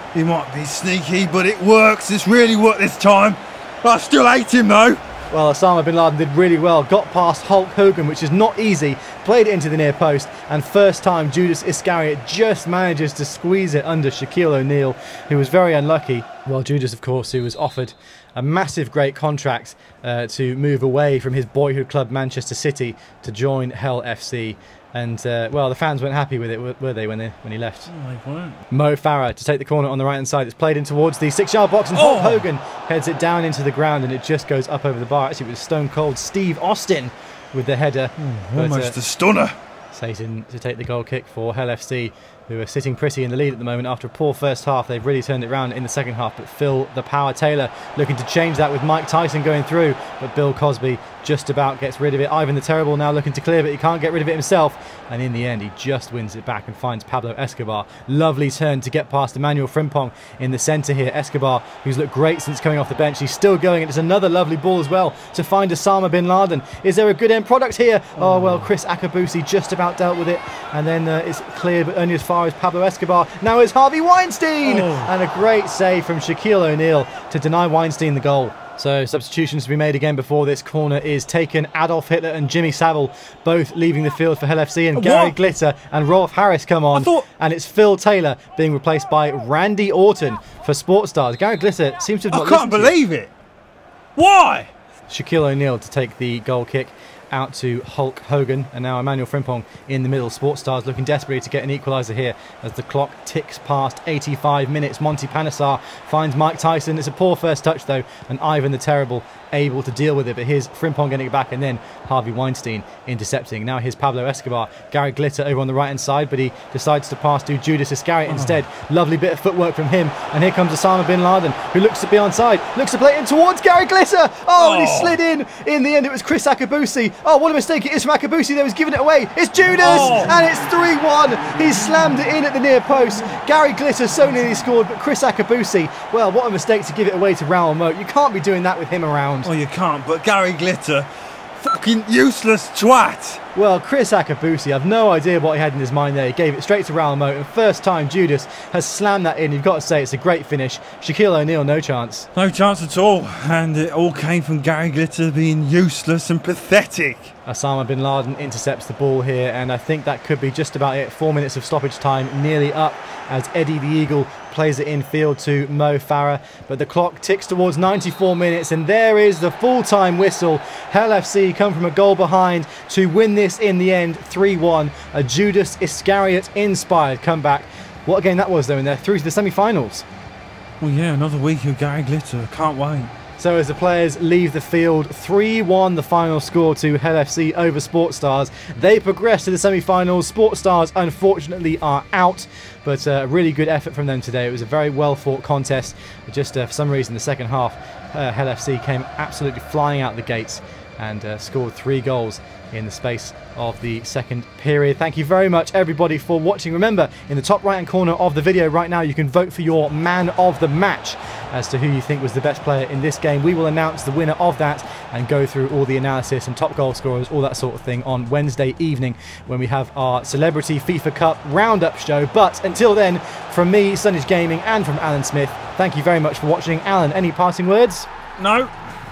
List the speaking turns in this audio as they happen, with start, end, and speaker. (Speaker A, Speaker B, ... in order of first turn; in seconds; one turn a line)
Speaker A: 0.1-5.0
Speaker B: 5.3-27.9
Speaker A: 27.9-28.6
Speaker B: 28.7-39.0
Speaker A: 31.9-32.4
Speaker A: 38.2-39.5
Speaker B: 39.9-93.0
Speaker A: 68.2-68.7
Speaker A: 74.6-75.1
Speaker A: 84.9-85.4
Speaker A: 86.9-87.2
Speaker A: 92.3-93.3
Speaker A: 94.2-94.7
Speaker B: 95.1-139.5
Speaker A: 118.3-118.6
Speaker A: 124.5-125.2
Speaker A: 129.7-130.5
Speaker A: 139.4-143.4
Speaker B: 143.5-152.3
Speaker A: 152.3-157.3
Speaker B: 157.4-180.0
Speaker A: 180.8-183.1
Speaker B: 183.4-228.1
Speaker A: 228.4-228.7